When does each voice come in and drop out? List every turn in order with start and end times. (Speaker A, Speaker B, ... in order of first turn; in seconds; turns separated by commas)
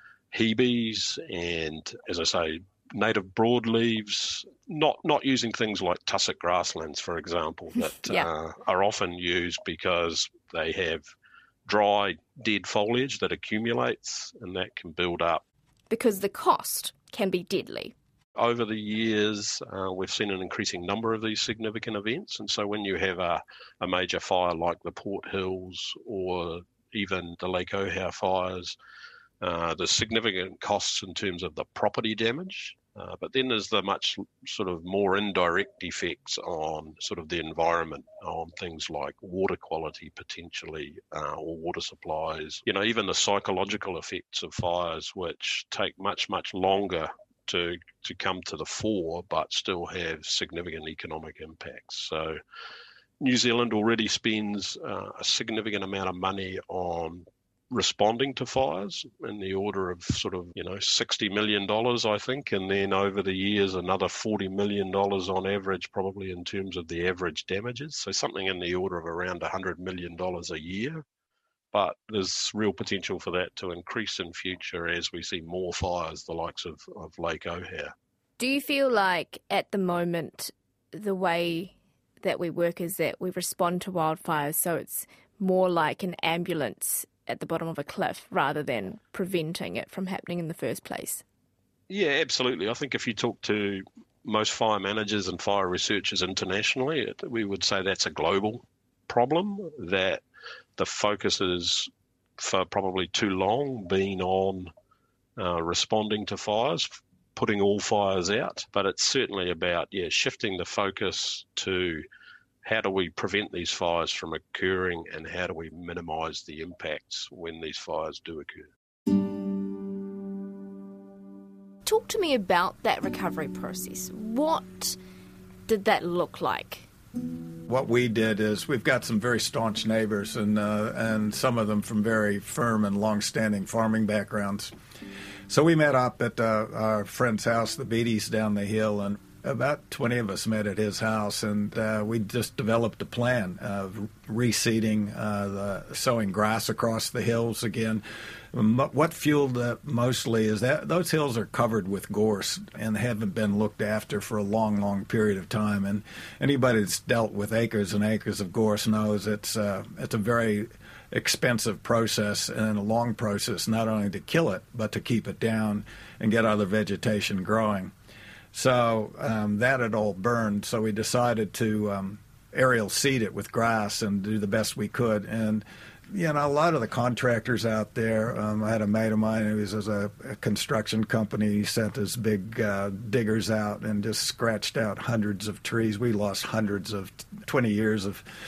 Speaker A: 0.3-11.1, Speaker B: 7.9-8.3, Speaker A: 11.7-15.4, Speaker B: 15.9-17.9, Speaker A: 18.4-28.8, Speaker A: 29.4-52.4, Speaker A: 53.2-71.0, Speaker A: 71.7-77.9, Speaker B: 78.4-91.2, Speaker A: 91.9-100.2, Speaker A: 100.8-104.7, Speaker A: 105.4-112.0, Speaker A: 112.6-118.7, Speaker B: 121.9-125.0, Speaker B: 125.7-126.9, Speaker C: 127.7-134.7, Speaker C: 135.5-167.9, Speaker C: 168.5-188.2